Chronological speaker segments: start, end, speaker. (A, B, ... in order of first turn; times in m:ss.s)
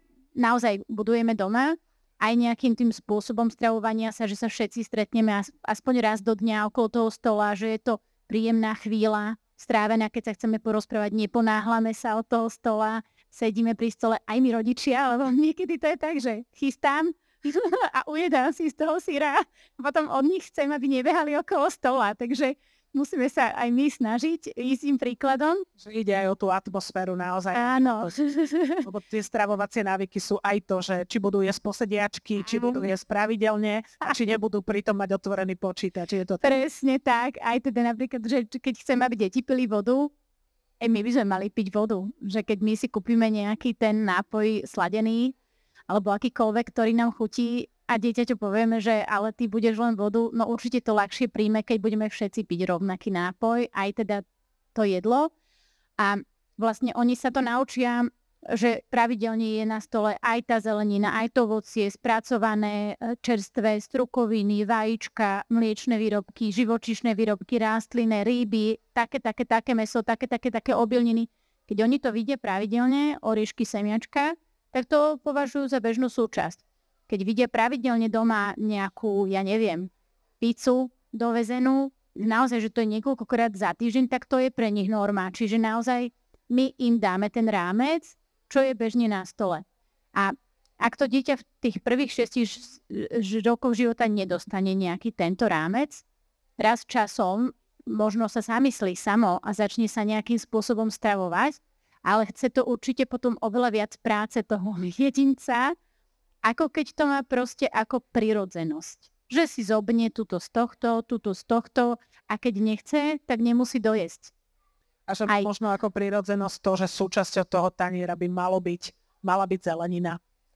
0:00.4-0:25.6 A
0:25.8-0:28.1 B
0:27.5-0:28.9 A
0:28.8-0:36.6 B
0:32.4-0:32.8 A
0:36.4-0:40.1 A
0:40.8-0:45.4 A
0:45.9-0:55.3 A
0:56.0-1:29.6 A
1:30.1-1:36.0 A
1:36.6-1:45.8 A
1:46.4-1:54.3 A
1:55.1-2:00.2 B